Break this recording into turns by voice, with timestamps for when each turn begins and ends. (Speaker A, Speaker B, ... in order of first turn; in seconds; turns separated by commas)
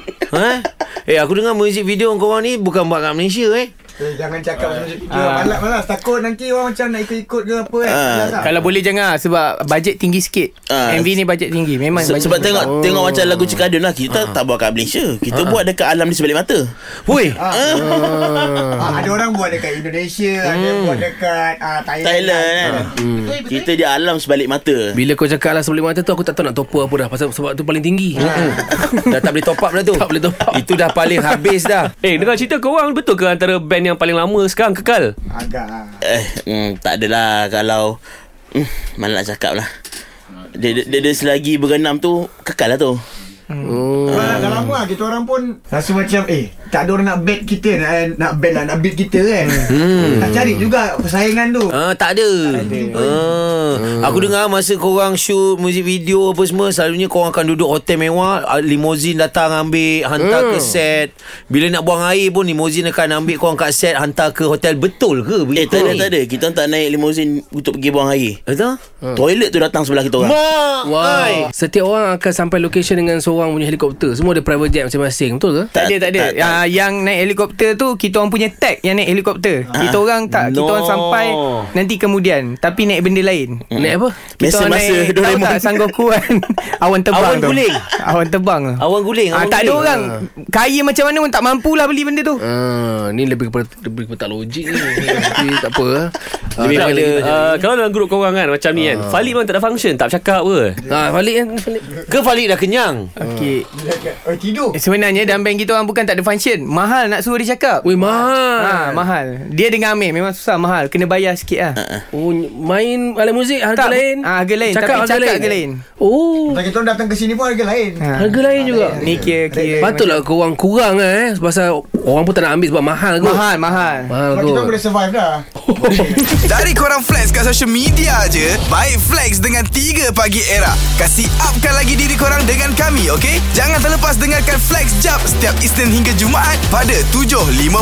Speaker A: 0.3-3.7, Speaker B: 4.0-8.5, Speaker C: 5.1-5.6, Speaker D: 7.8-8.5, Speaker C: 8.4-12.7, Speaker D: 10.7-11.2, Speaker D: 11.9-16.7, Speaker E: 12.7-13.2, Speaker A: 17.0-17.4, Speaker B: 17.3-17.6, Speaker D: 17.5-18.8, Speaker E: 17.8-19.0, Speaker B: 18.8-22.9, Speaker A: 20.4-21.1, Speaker D: 22.0-24.9, Speaker E: 23.0-23.4, Speaker E: 24.9-29.1, Speaker B: 28.2-28.6, Speaker A: 28.2-31.9, Speaker E: 29.9-31.4, Speaker F: 32.0-35.1, Speaker B: 35.3-36.0, Speaker D: 36.0-38.0, Speaker D: 38.5-39.7, Speaker D: 40.4-43.0, Speaker E: 43.6-44.7, Speaker D: 44.1-44.5, Speaker B: 44.1-51.7, Speaker A: 49.6-50.3, Speaker A: 51.7-66.1, Speaker B: 52.5-53.2, Speaker C: 52.7-53.0, Speaker E: 53.9-54.2, Speaker E: 60.2-60.8, Speaker D: 65.5-68.4, Speaker A: 68.5-68.8, Speaker D: 69.2-70.4, Speaker A: 70.2-71.5, Speaker E: 70.8-75.7, Speaker D: 75.7-76.6, Speaker C: 75.8-83.6, Speaker D: 79.7-80.0, Speaker A: 80.3-81.7, Speaker D: 83.7-85.9, Speaker E: 83.8-84.2, Speaker C: 84.4-92.4, Speaker A: 87.1-87.9, Speaker A: 88.8-89.9, Speaker E: 92.4-97.2, Speaker F: 96.6-100.8, Speaker A: 96.8-97.6, Speaker E: 98.8-99.1, Speaker E: 100.9-102.0, Speaker A: 102.1-103.1, Speaker C: 103.2-103.7, Speaker B: 103.7-104.8, Speaker C: 104.7-107.9, Speaker E: 107.8-109.0, Speaker C: 108.6-111.8, Speaker D: 111.8-112.0, Speaker E: 112.1-116.6, Speaker C: 113.8-115.8, Speaker B: 116.5-119.9, Speaker C: 118.0-120.2, Speaker E: 118.2-119.0, Speaker E: 119.8-123.5, Speaker C: 123.2-124.1, Speaker E: 124.1-124.8, Speaker B: 124.3-126.3, Speaker E: 125.6-126.6, Speaker G: 126.5-130.3, Speaker G: 130.8-132.6, Speaker G: 133.1-137.2